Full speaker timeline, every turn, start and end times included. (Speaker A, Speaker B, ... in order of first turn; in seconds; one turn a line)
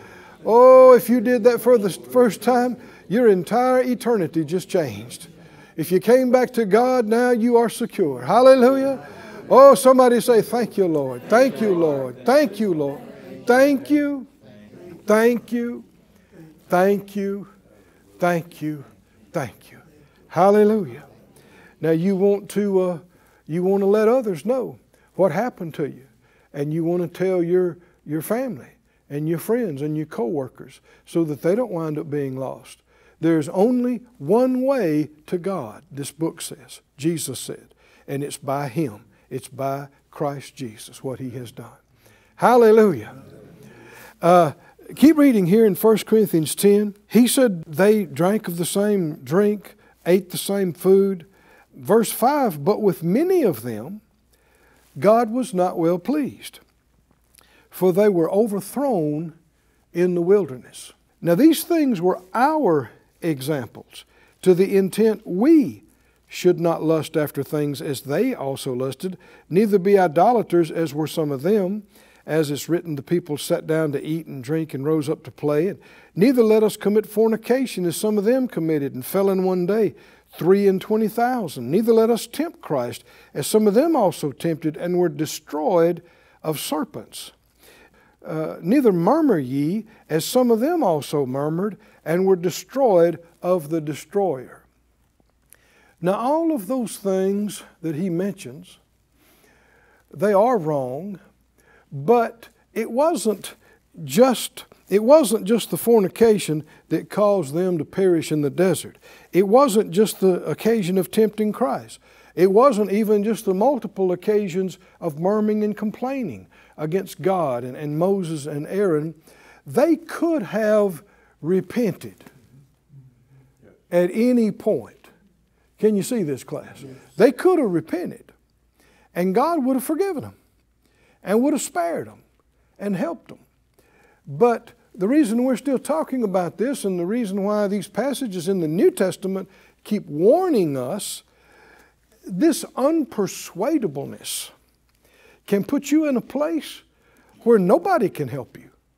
Speaker A: 0.4-14.3
Speaker A: 15.1-15.8
Speaker A: 16.7-17.5
Speaker A: 18.2-21.0
Speaker A: 21.8-41.8
Speaker A: 42.4-43.1
Speaker A: 44.2-54.0
Speaker A: 55.0-56.6
Speaker A: 57.7-59.3
Speaker A: 59.9-87.3
Speaker A: 88.2-94.6
Speaker A: 96.0-98.8
Speaker A: 100.1-101.2
Speaker A: 101.9-122.2
Speaker A: 123.9-125.1
Speaker A: 125.8-128.3
Speaker A: 129.1-130.3
Speaker A: 131.2-132.2
Speaker A: 132.8-133.4
Speaker A: 134.3-141.2
Speaker A: 142.3-144.5
Speaker A: 145.4-146.8
Speaker A: 147.4-148.7